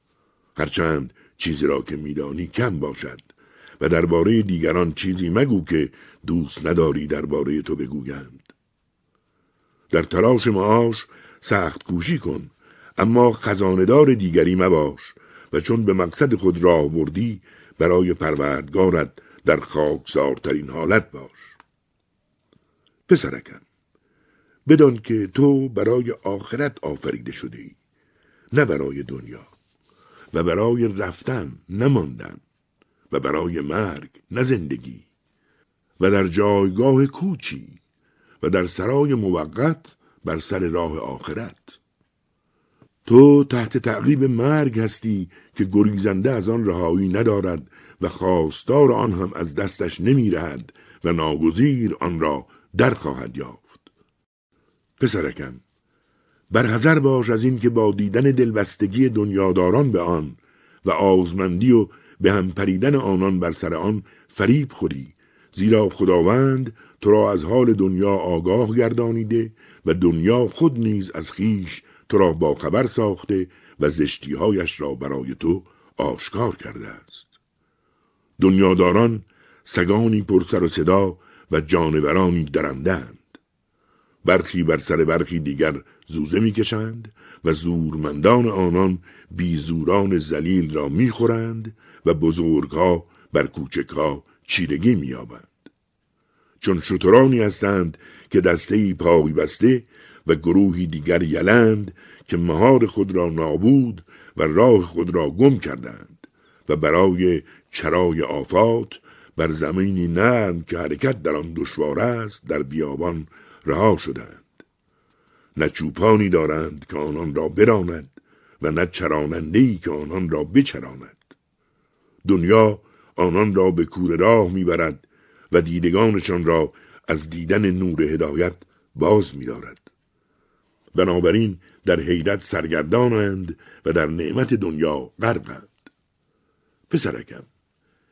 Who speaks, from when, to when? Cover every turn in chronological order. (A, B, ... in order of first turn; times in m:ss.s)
0:00.5-0:08.5 A
0:09.9-0:21.6 A
0:23.1-0:23.6 A
0:24.6-0:27.8 A
0:28.5-0:29.5 A
0:30.3-0:32.4 A
0:33.1-0:35.1 A
0:36.0-0:37.8 A
0:38.4-0:41.8 A
0:43.0-0:53.9 A
0:55.0-0:55.6 A
0:56.5-1:17.4 A
1:18.4-1:23.4 A
1:24.2-1:35.6 A
1:36.6-1:54.5 A
1:55.5-2:01.3 A
2:02.2-2:09.9 A
2:10.9-2:15.9 A
2:16.9-2:17.5 A